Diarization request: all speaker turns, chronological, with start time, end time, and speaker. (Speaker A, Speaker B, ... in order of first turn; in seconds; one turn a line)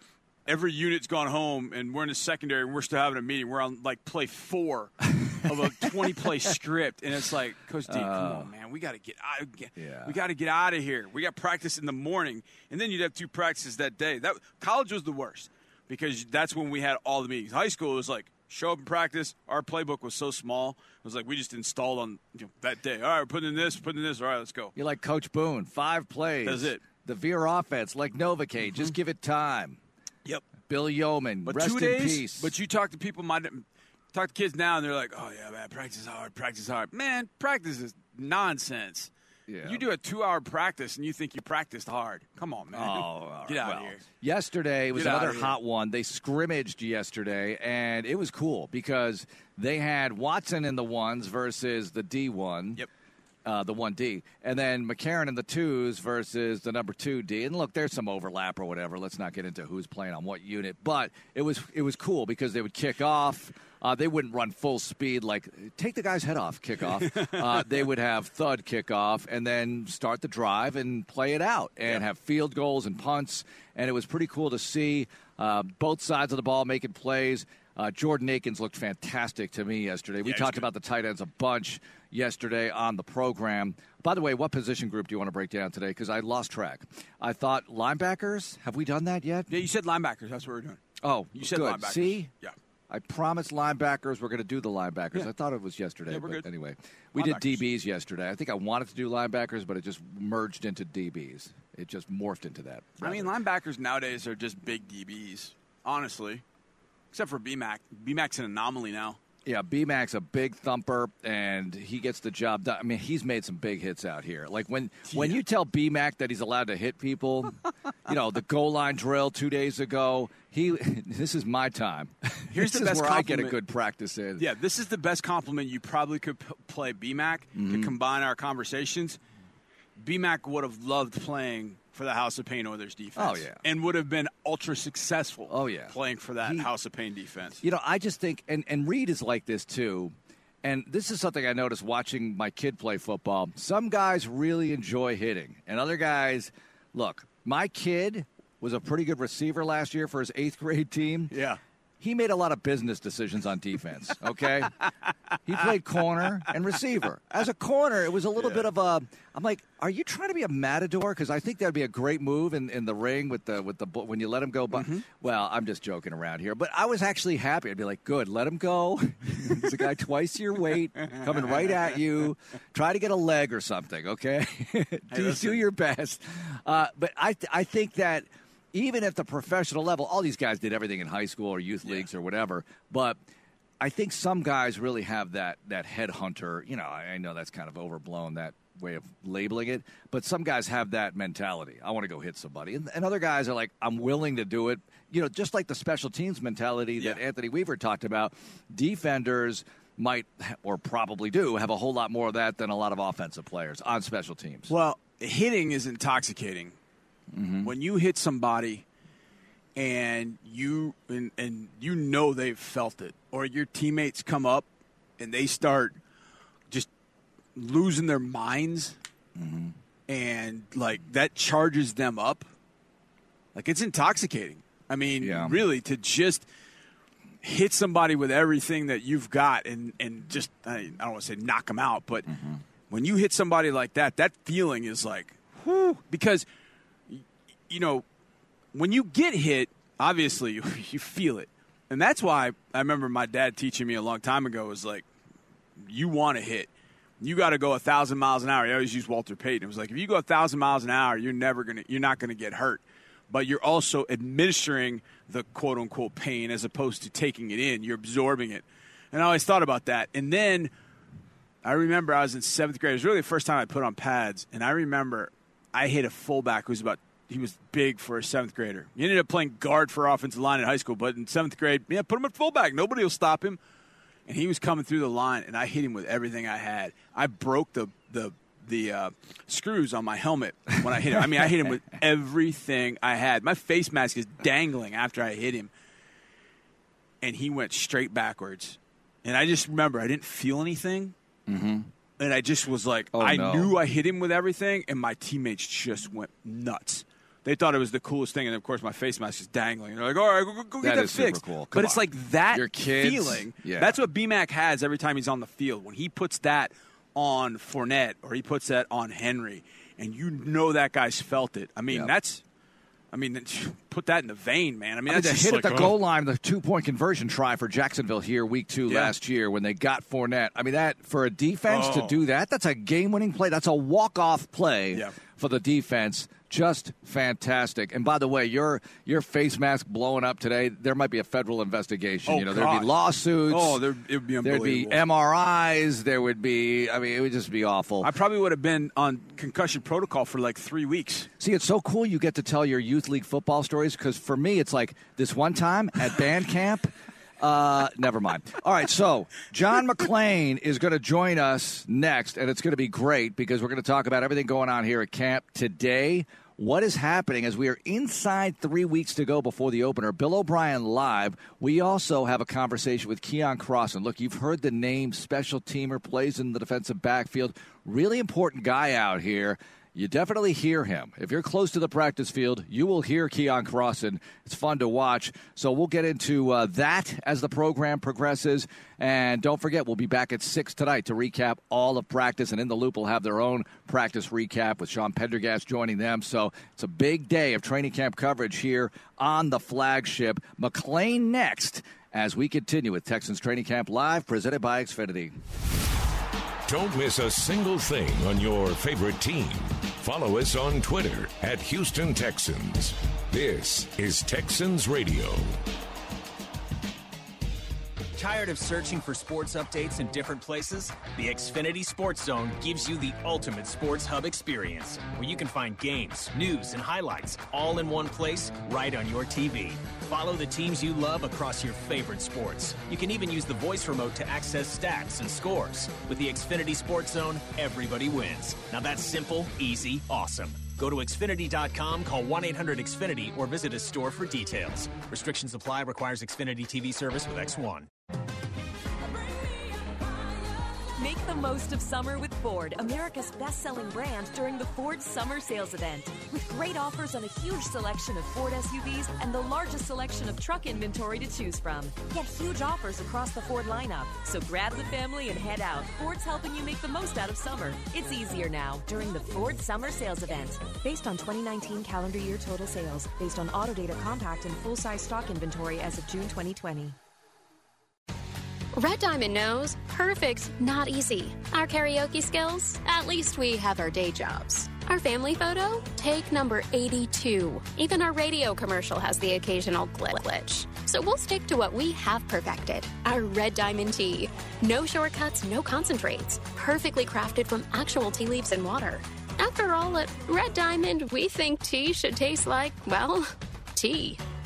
Speaker A: 0.5-24.7
Speaker B: 7.9-8.5
Speaker B: 9.8-10.2
Speaker B: 24.8-29.8
Speaker A: 26.4-26.8
Speaker B: 30.7-32.5
Speaker A: 31.4-39.1
Speaker B: 39.5-39.9
Speaker A: 39.6-44.0
Speaker B: 42.7-52.8
Speaker A: 44.9-45.5
Speaker B: 53.5-89.5
Speaker A: 67.0-67.4
Speaker A: 80.2-80.7
Speaker A: 89.5-90.8
Speaker B: 91.0-92.3
Speaker A: 91.4-92.5
Speaker B: 92.9-103.3
Speaker A: 96.1-96.5
Speaker A: 97.2-97.7
Speaker A: 103.0-106.4
Speaker A: 107.1-109.2
Speaker B: 109.5-117.5
Speaker A: 115.1-115.4
Speaker B: 118.1-124.5
Speaker A: 122.5-123.6
Speaker A: 124.4-129.2
Speaker B: 127.5-128.0
Speaker A: 130.0-137.6
Speaker B: 133.2-133.6
Speaker B: 135.5-136.7
Speaker B: 137.6-151.3
Speaker A: 151.3-151.6
Speaker B: 152.0-154.7
Speaker B: 155.5-183.2
Speaker A: 158.4-158.7
Speaker A: 164.7-165.0
Speaker A: 171.0-171.7
Speaker A: 175.1-175.6
Speaker B: 183.8-204.7
Speaker A: 204.7-206.8
Speaker B: 207.3-207.7
Speaker A: 207.6-208.8
Speaker A: 209.8-214.7
Speaker A: 215.2-216.0
Speaker A: 217.6-219.0
Speaker B: 219.4-219.8
Speaker A: 220.1-222.5
Speaker A: 223.6-226.5
Speaker B: 225.2-225.6
Speaker A: 227.4-232.3
Speaker B: 232.3-232.6
Speaker A: 232.9-236.5
Speaker A: 237.1-238.1
Speaker A: 238.7-245.1
Speaker A: 245.8-260.7
Speaker A: 261.6-273.6
Speaker A: 274.3-285.7
Speaker A: 287.2-291.1
Speaker B: 291.5-291.9
Speaker A: 292.2-312.4
Speaker B: 293.1-293.8
Speaker B: 300.8-304.0
Speaker A: 313.1-316.0
Speaker B: 315.1-333.8
Speaker A: 318.9-319.1
Speaker A: 321.7-322.2
Speaker A: 332.3-332.9
Speaker A: 333.5-335.0
Speaker B: 334.4-338.1
Speaker A: 338.0-341.3
Speaker B: 341.4-395.4
Speaker C: 396.7-405.5
Speaker D: 408.2-437.9
Speaker E: 441.0-467.0
Speaker F: 468.8-494.2